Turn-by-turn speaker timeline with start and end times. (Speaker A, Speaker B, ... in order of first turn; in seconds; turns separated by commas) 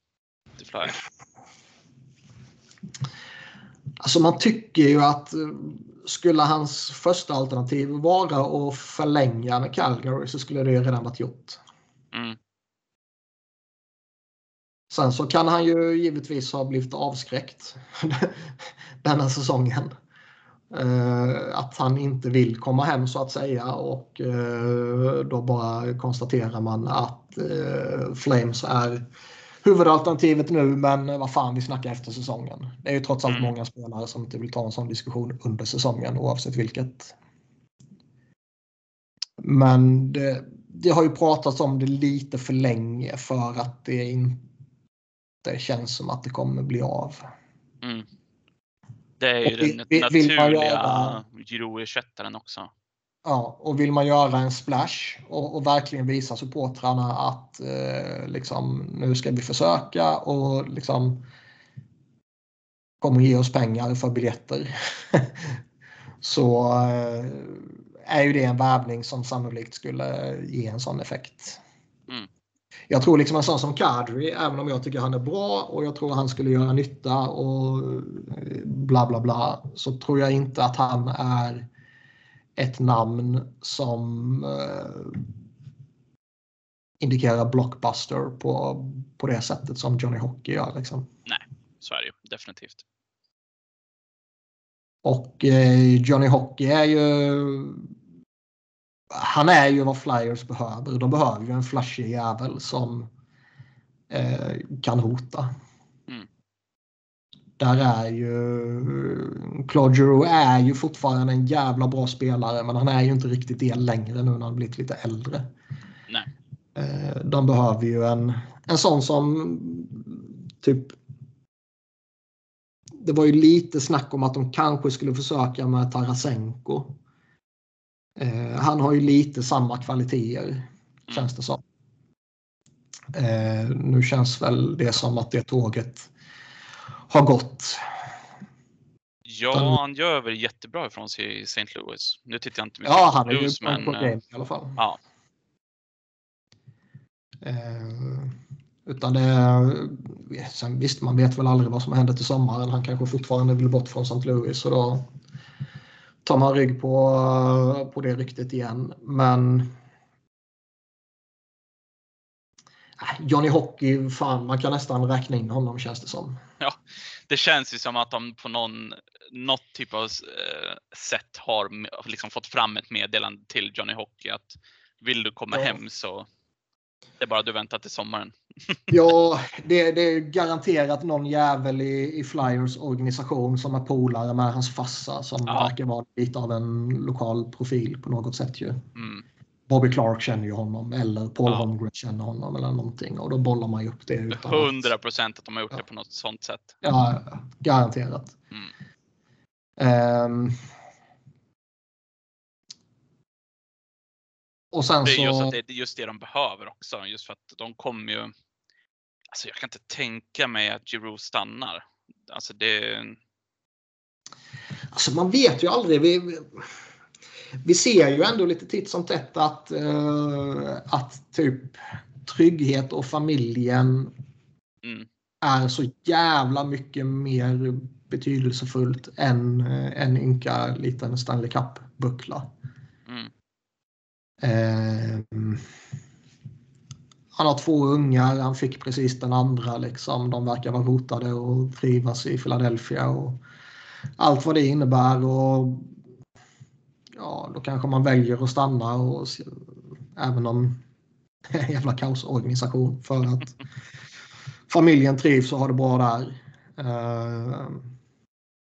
Speaker A: 0.6-1.0, Speaker B: 4.0-11.6, Speaker A: 12.1-12.4, Speaker B: 14.9-19.9, Speaker B: 20.7-29.1, Speaker B: 29.6-37.1, Speaker A: 33.3-33.5, Speaker B: 39.4-44.4, Speaker B: 45.4-47.2, Speaker A: 47.8-48.1, Speaker A: 49.2-52.7, Speaker B: 49.4-51.2, Speaker B: 53.2-61.2, Speaker B: 63.0-65.6, Speaker B: 66.2-71.6, Speaker B: 72.9-81.7, Speaker B: 82.6-85.2, Speaker B: 87.0-91.1, Speaker A: 91.2-92.8, Speaker B: 95.0-97.9, Speaker B: 99.1-103.1, Speaker B: 104.1-105.5, Speaker B: 107.6-115.5, Speaker B: 116.8-121.0, Speaker B: 123.0-126.9, Speaker B: 128.2-131.6, Speaker B: 133.1-136.1, Speaker B: 137.1-137.8, Speaker A: 139.2-144.1, Speaker B: 139.5-139.8, Speaker B: 142.8-144.8, Speaker B: 147.4-148.3, Speaker B: 148.8-155.1, Speaker B: 156.2-159.7, Speaker B: 163.0-166.4, Speaker A: 166.6-176.2, Speaker B: 175.5-175.8, Speaker A: 177.2-178.9, Speaker B: 178.9-188.8, Speaker A: 188.9-189.2, Speaker B: 189.7-194.9, Speaker A: 194.3-196.7, Speaker B: 196.8-198.3, Speaker B: 199.8-200.6, Speaker B: 204.7-205.6, Speaker A: 205.0-208.3, Speaker A: 209.3-213.2, Speaker B: 214.9-216.6, Speaker B: 217.6-224.1, Speaker A: 224.8-225.1, Speaker B: 225.4-232.5, Speaker B: 234.4-235.6, Speaker B: 237.3-243.4, Speaker B: 244.2-245.9, Speaker B: 247.2-249.6, Speaker B: 250.2-250.8, Speaker B: 251.5-253.6, Speaker B: 254.7-257.9